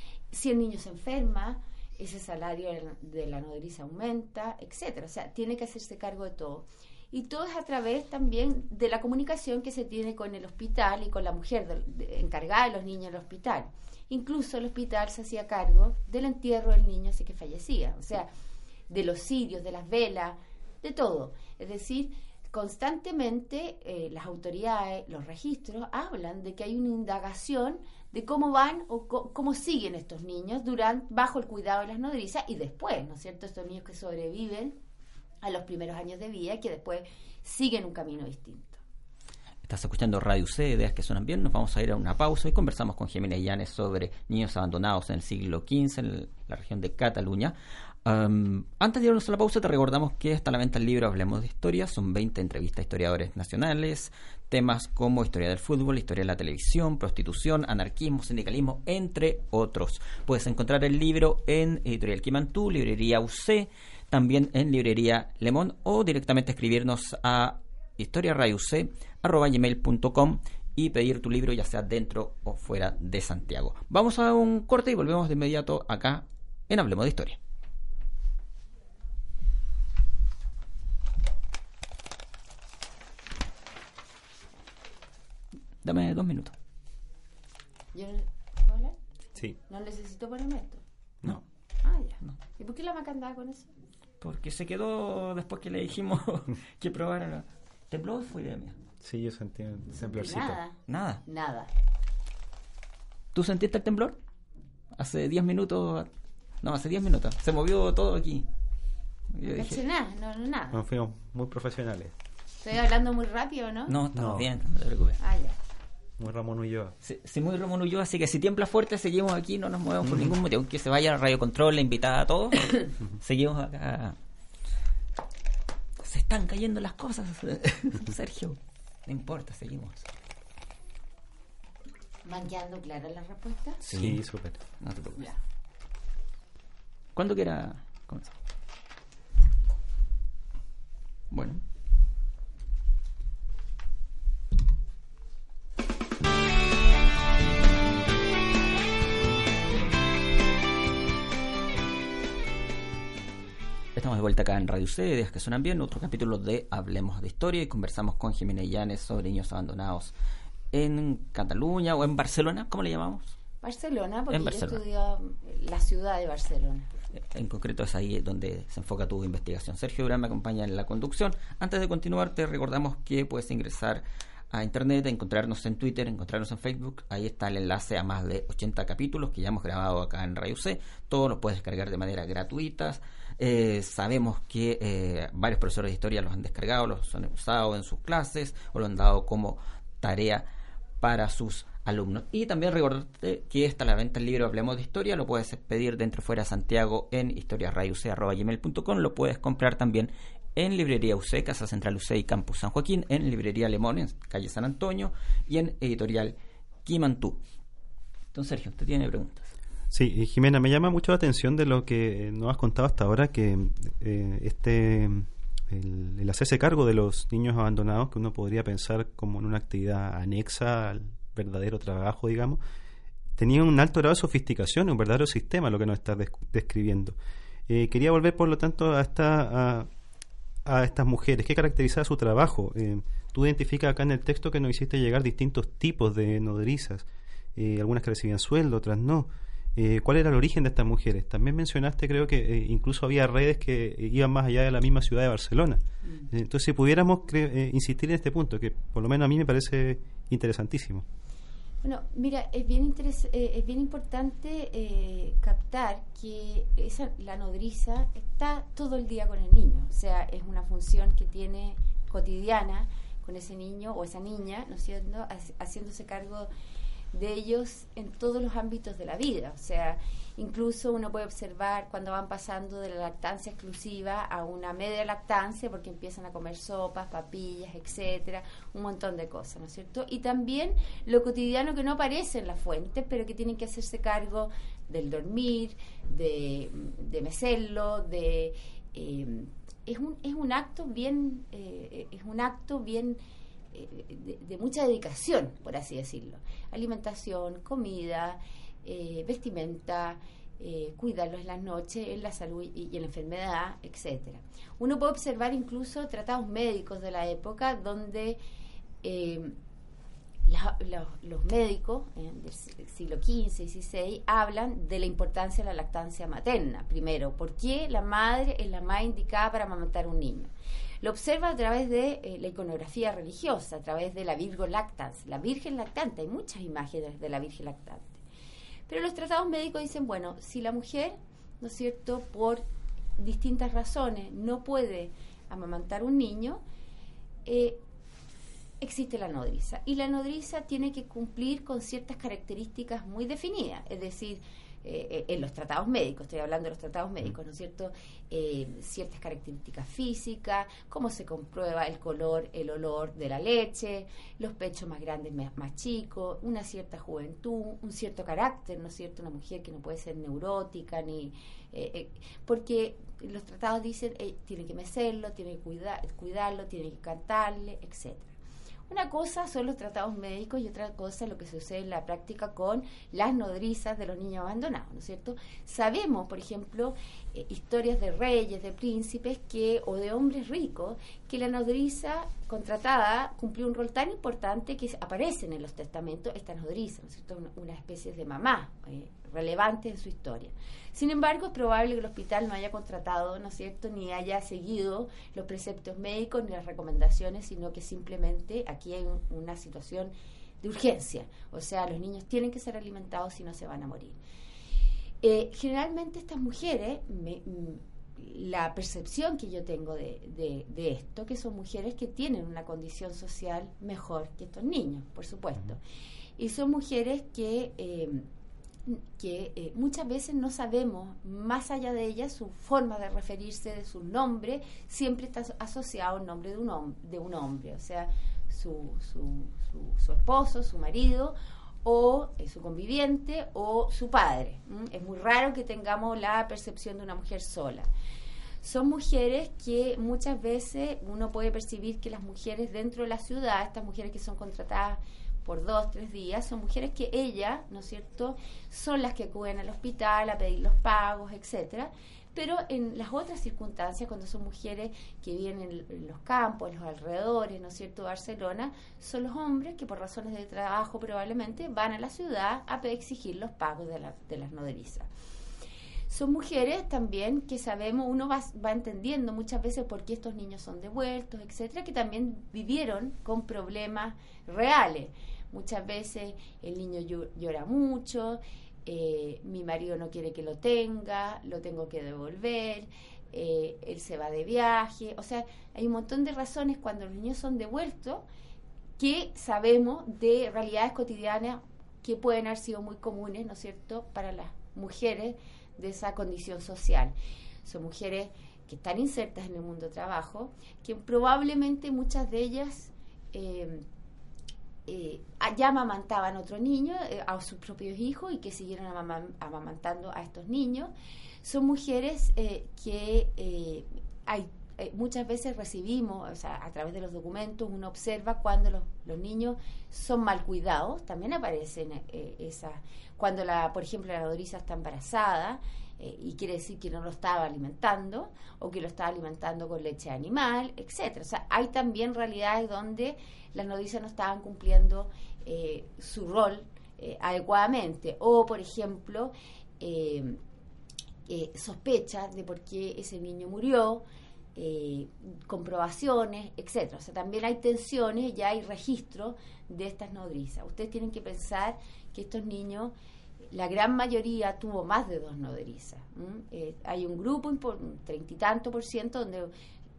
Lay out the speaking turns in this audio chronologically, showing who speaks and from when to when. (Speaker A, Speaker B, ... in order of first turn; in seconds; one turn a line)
Speaker A: 0.3-18.3
Speaker A: 18.9-34.8
Speaker A: 35.4-38.8
Speaker B: 39.6-77.4
Speaker B: 85.8-86.5
Speaker A: 87.9-89.0
Speaker A: 89.7-90.8
Speaker A: 91.8-93.7
Speaker B: 94.2-98.8
Speaker C: 99.0-100.6
Speaker A: 99.9-101.7
Speaker B: 100.9-101.2
Speaker B: 103.3-104.2
Speaker B: 104.9-106.1
Speaker B: 106.6-108.5
Speaker B: 109.3-109.8
Speaker A: 109.4-110.8
Speaker C: 110.7-112.1
Speaker A: 112.6-113.9
Speaker B: 113.9-115.2
Speaker C: 114.1-114.5
Speaker A: 115.2-115.5
Speaker C: 116.2-117.0
Speaker B: 117.0-124.2
Speaker C: 120.0-120.3
Speaker B: 126.0-130.0
Speaker A: 132.2-133.8
Speaker C: 133.8-134.6
Speaker B: 133.9-134.2
Speaker B: 134.8-135.3
Speaker B: 137.1-138.3
Speaker B: 141.3-141.6
Speaker B: 153.9-160.1
Speaker B: 160.7-163.3
Speaker A: 163.6-166.9
Speaker B: 164.3-164.8
Speaker B: 167.1-190.4
Speaker B: 191.0-206.3
Speaker B: 206.8-207.4
Speaker B: 208.3-209.5
Speaker C: 209.9-222.6
Speaker C: 223.4-227.2
Speaker C: 227.7-229.9
Speaker C: 230.6-251.0
Speaker A: 251.8-266.5
Speaker A: 267.1-293.2
Speaker A: 293.7-308.4
Speaker A: 309.0-309.6
Speaker A: 310.4-320.5
Speaker A: 321.0-328.2
Speaker A: 328.9-332.6
Speaker A: 333.2-336.6
Speaker A: 337.4-337.8
Speaker A: 338.8-368.3
Speaker A: 368.9-404.2
Speaker A: 405.2-415.8
Speaker A: 416.4-418.2
Speaker A: 418.9-437.9
Speaker A: 438.6-465.1
Speaker A: 466.1-488.2
Speaker A: 489.0-503.8
Speaker A: 504.9-510.9
Speaker A: 511.4-540.4
Speaker A: 541.3-544.0
Speaker A: 544.5-552.9
Speaker A: 553.5-559.5